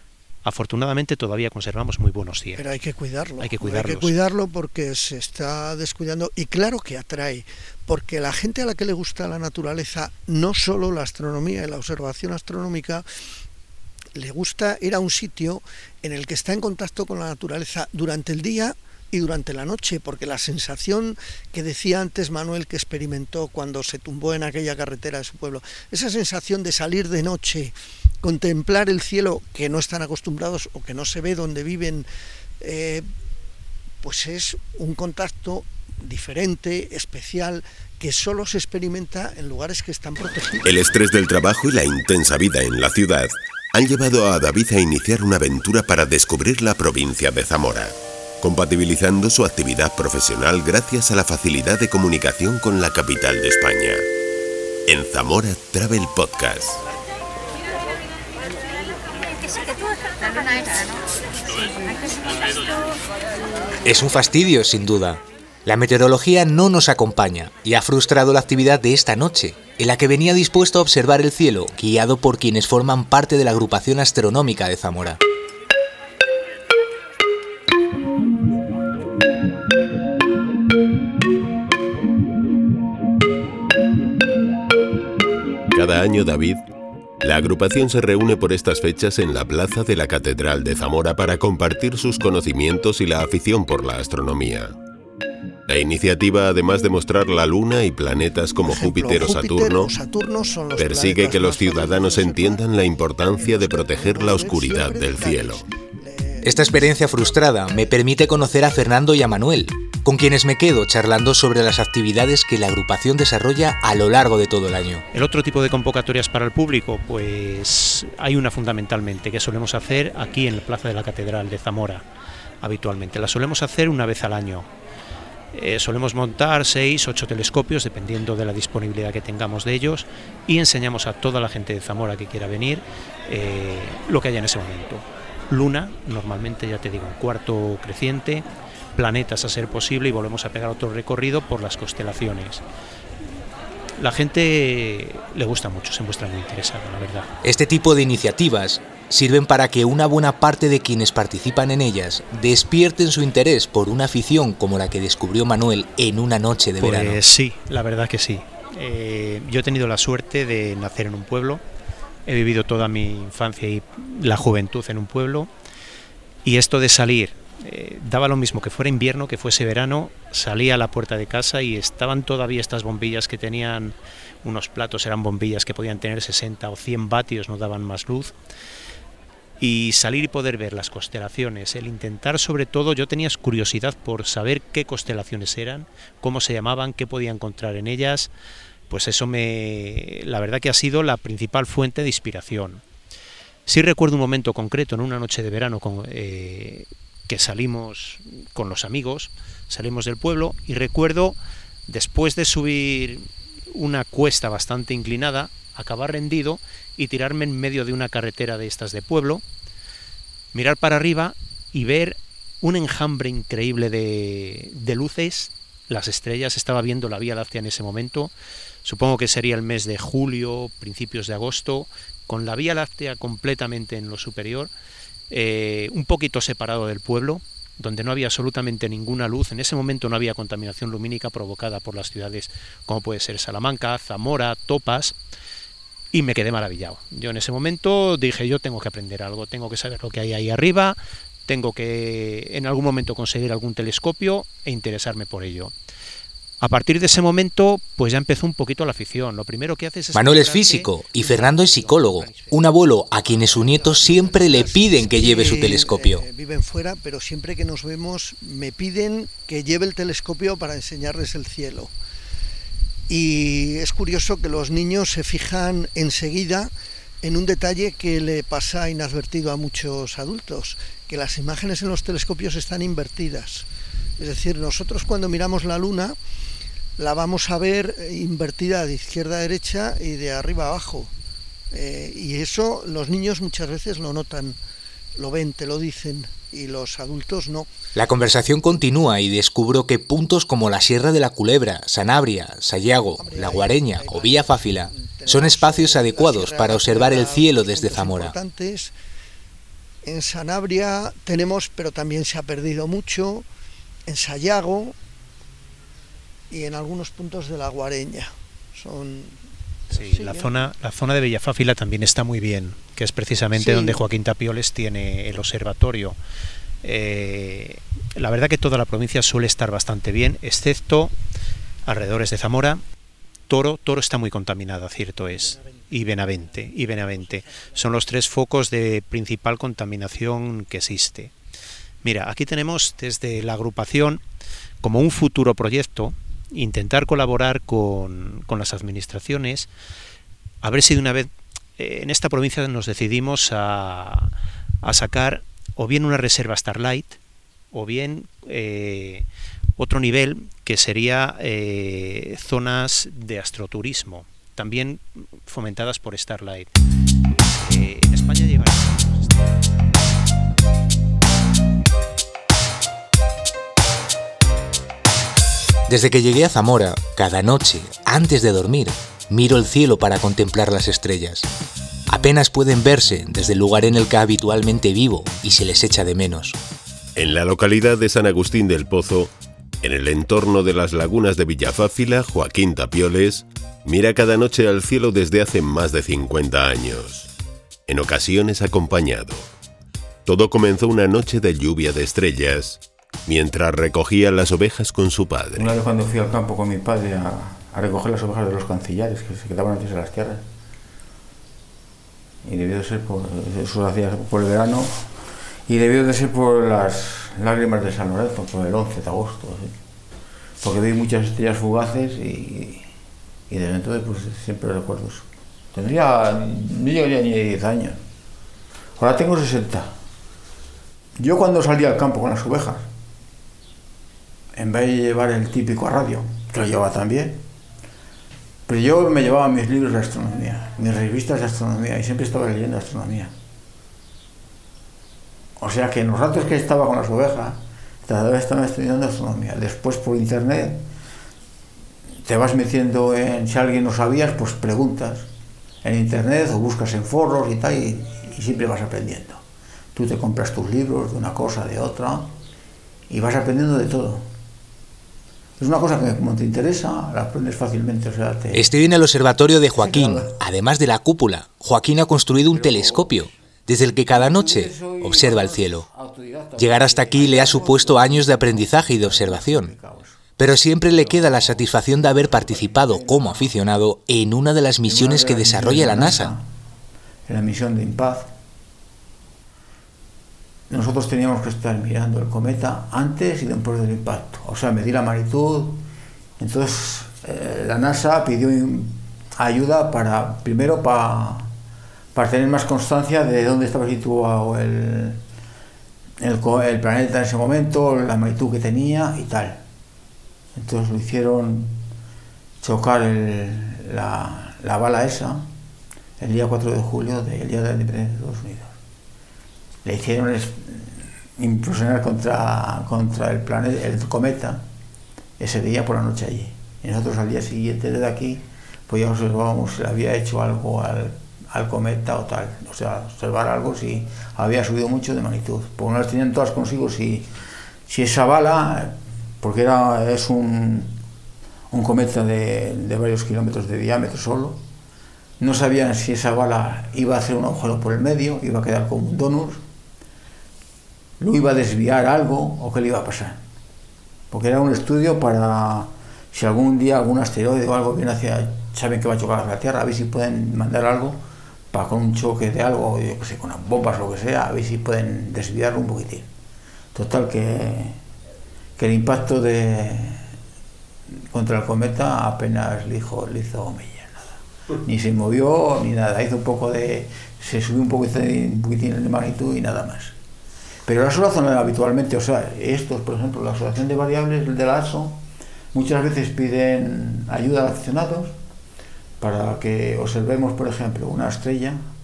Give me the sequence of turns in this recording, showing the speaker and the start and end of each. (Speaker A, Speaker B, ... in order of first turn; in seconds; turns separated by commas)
Speaker A: 0.4-2.7, Speaker B: 2.5-13.1, Speaker A: 3.4-4.2, Speaker B: 14.2-32.1, Speaker B: 32.6-33.0, Speaker B: 34.0-40.8, Speaker C: 40.6-54.0, Speaker C: 54.9-56.8, Speaker D: 63.8-75.2, Speaker C: 85.7-86.6, Speaker C: 87.2-94.8, Speaker C: 95.7-99.9, Speaker B: 98.6-107.0, Speaker C: 100.8-105.6, Speaker D: 106.4-115.0, Speaker A: 115.1-122.0, Speaker A: 122.6-124.7, Speaker A: 125.5-142.6, Speaker A: 144.0-147.3, Speaker D: 147.4-157.2, Speaker A: 156.8-161.6, Speaker A: 162.2-165.5, Speaker A: 166.4-178.3, Speaker A: 179.6-188.3, Speaker A: 188.9-192.8, Speaker A: 193.7-209.4, Speaker A: 210.5-218.3, Speaker A: 218.8-224.7, Speaker A: 225.3-235.2, Speaker A: 236.1-245.7, Speaker A: 246.6-254.4, Speaker D: 250.1-256.2, Speaker B: 254.2-261.9, Speaker B: 263.1-273.7, Speaker B: 274.2-276.2, Speaker B: 277.0-281.1, Speaker B: 281.7-284.6, Speaker B: 285.2-287.7, Speaker D: 287.9-298.4, Speaker B: 293.2-298.9, Speaker B: 300.0-303.5, Speaker B: 304.1-304.9, Speaker B: 306.5-310.7, Speaker A: 309.9-316.2, Speaker B: 313.6-314.0, Speaker A: 316.8-321.1, Speaker A: 321.9-322.8, Speaker A: 323.5-331.3, Speaker A: 332.0-334.2, Speaker A: 334.8-339.7, Speaker A: 340.6-347.2, Speaker A: 347.7-356.7, Speaker A: 357.5-359.7, Speaker D: 365.9-371.5, Speaker D: 372.1-376.6, Speaker C: 377.2-387.3, Speaker C: 387.9-389.5, Speaker C: 390.2-395.7, Speaker E: 395.6-400.4, Speaker E: 402.4-405.0, Speaker E: 405.7-409.7, Speaker E: 410.6-412.9, Speaker E: 413.5-418.0, Speaker E: 419.0-419.9, Speaker E: 421.2-422.9, Speaker E: 424.6-427.4, Speaker E: 428.7-433.3, Speaker E: 435.6-440.8, Speaker E: 442.2-445.3, Speaker E: 445.8-449.4, Speaker E: 449.9-452.3, Speaker E: 453.1-454.2, Speaker E: 455.6-458.7, Speaker D: 458.5-465.9, Speaker E: 459.8-460.4, Speaker E: 462.4-463.4, Speaker E: 464.1-473.6, Speaker D: 466.6-469.7, Speaker D: 470.4-476.3, Speaker E: 474.8-476.5, Speaker E: 477.3-478.3, Speaker E: 480.7-485.8, Speaker E: 486.4-491.5, Speaker E: 492.1-495.2, Speaker E: 496.2-499.6, Speaker E: 500.6-501.8, Speaker E: 502.6-505.5, Speaker E: 506.2-508.7, Speaker E: 509.8-514.6, Speaker E: 515.4-527.3, Speaker E: 527.9-531.0, Speaker E: 531.7-534.6, Speaker E: 535.4-539.6, Speaker E: 541.2-543.4, Speaker E: 544.3-551.2, Speaker E: 551.7-556.3, Speaker E: 556.9-558.0, Speaker E: 558.8-560.2, Speaker E: 561.1-570.1, Speaker E: 570.9-575.2, Speaker E: 575.7-578.3, Speaker E: 579.2-581.8